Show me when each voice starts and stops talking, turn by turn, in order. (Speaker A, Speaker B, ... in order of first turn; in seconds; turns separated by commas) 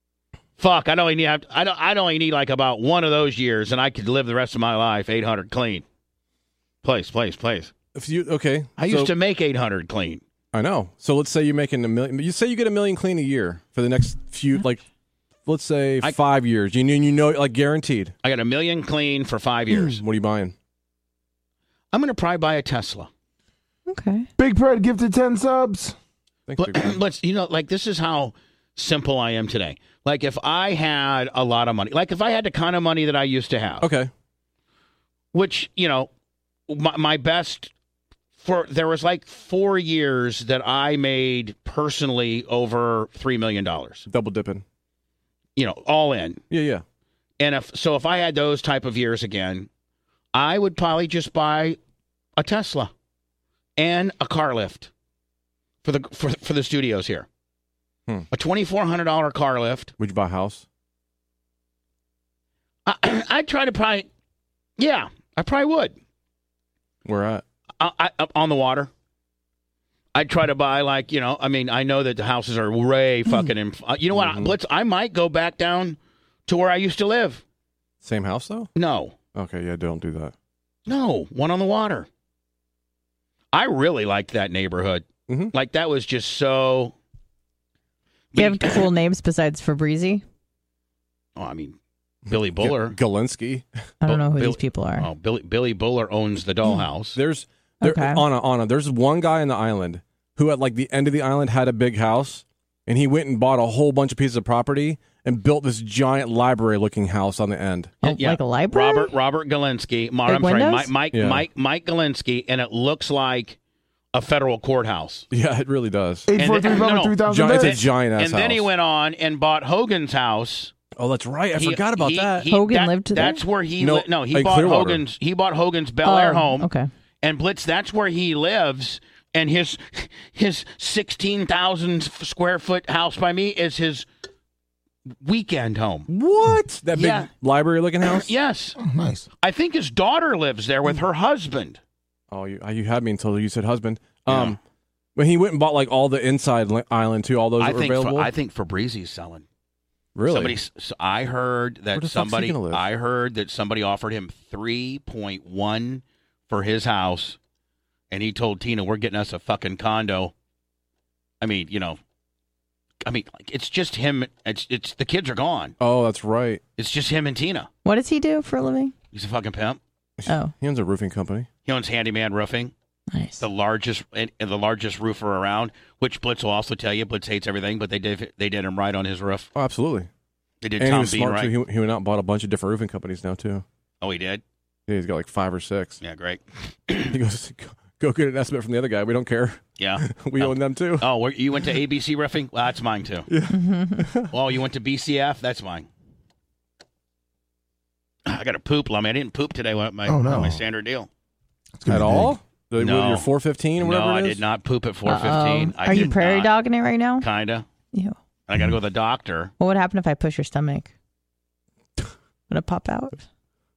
Speaker A: 0.6-5.8, Speaker A: 6.8-7.7, Speaker B: 8.0-9.1, Speaker A: 8.8-10.2, Speaker B: 10.5-14.8, Speaker B: 15.5-18.1, Speaker A: 18.2-20.0, Speaker B: 19.7-20.5, Speaker A: 21.9-23.1, Speaker C: 23.9-24.3, Speaker D: 24.4-26.0, Speaker B: 26.5-27.0, Speaker A: 26.6-33.9, Speaker B: 33.8-34.1, Speaker A: 35.3-36.1, Speaker A: 36.7-37.7, Speaker A: 38.4-44.1, Speaker B: 44.1-44.6, Speaker A: 45.6-46.4, Speaker B: 46.5-46.8, Speaker A: 47.4-49.7, Speaker A: 50.3-51.8, Speaker A: 52.4-52.9, Speaker A: 53.8-54.9, Speaker A: 55.8-57.3, Speaker A: 58.3-59.9, Speaker B: 60.0-60.6, Speaker A: 62.9-64.1, Speaker A: 64.8-66.0, Speaker B: 67.0-67.4, Speaker A: 67.8-68.9, Speaker A: 70.2-77.4, Speaker B: 74.1-74.5, Speaker B: 78.0-78.7, Speaker A: 78.8-79.2, Speaker B: 79.3-80.3, Speaker A: 80.9-82.1, Speaker A: 83.5-86.9, Speaker B: 85.3-85.5, Speaker A: 88.3-88.9, Speaker C: 88.4-90.2, Speaker A: 91.4-91.8, Speaker A: 92.3-93.0, Speaker B: 92.3-93.7, Speaker C: 94.0-95.1, Speaker A: 94.1-97.2, Speaker B: 97.1-108.0, Speaker C: 97.8-98.2, Speaker C: 108.0-109.1, Speaker A: 108.0-113.6, Speaker C: 110.3-110.9, Speaker B: 111.1-111.5, Speaker A: 114.1-115.3, Speaker B: 115.3-116.3, Speaker D: 116.3-117.8, Speaker A: 116.4-120.7, Speaker B: 117.2-118.7, Speaker B: 121.0-122.5, Speaker A: 121.5-126.7, Speaker C: 122.5-123.4, Speaker B: 123.8-125.0, Speaker C: 126.0-126.9, Speaker A: 127.2-134.1, Speaker A: 135.2-136.1, Speaker B: 136.1-138.3, Speaker A: 136.9-137.3, Speaker A: 138.0-138.8, Speaker D: 138.8-139.3, Speaker A: 139.4-141.8, Speaker B: 142.3-144.6, Speaker A: 144.3-144.6, Speaker B: 145.2-148.3, Speaker A: 147.6-149.5, Speaker B: 150.2-150.5, Speaker A: 150.3-157.4, Speaker B: 151.9-152.8, Speaker A: 158.1-160.3, Speaker A: 161.4-162.0, Speaker A: 163.0-165.8, Speaker B: 165.8-166.6, Speaker A: 166.8-167.7, Speaker C: 167.8-168.9, Speaker A: 169.1-169.8, Speaker B: 170.2-171.5, Speaker C: 170.3-170.5, Speaker A: 171.7-172.7, Speaker C: 173.1-173.4, Speaker A: 173.4-179.5, Speaker B: 179.6-180.1, Speaker A: 180.6-181.5, Speaker B: 180.8-183.7, Speaker A: 184.0-184.4, Speaker B: 184.9-186.0, Speaker A: 186.0-187.2, Speaker B: 187.1-191.1, Speaker A: 189.8-193.3, Speaker B: 193.3-194.3, Speaker C: 193.5-194.1, Speaker A: 194.3-195.9, Speaker A: 198.3-201.1, Speaker D: 200.1-200.6, Speaker D: 201.8-202.3, Speaker B: 201.9-204.4, Speaker A: 202.8-206.5, Speaker C: 205.1-207.3, Speaker A: 207.2-207.7, Speaker A: 208.5-209.5, Speaker C: 209.6-210.9, Speaker C: 212.5-213.2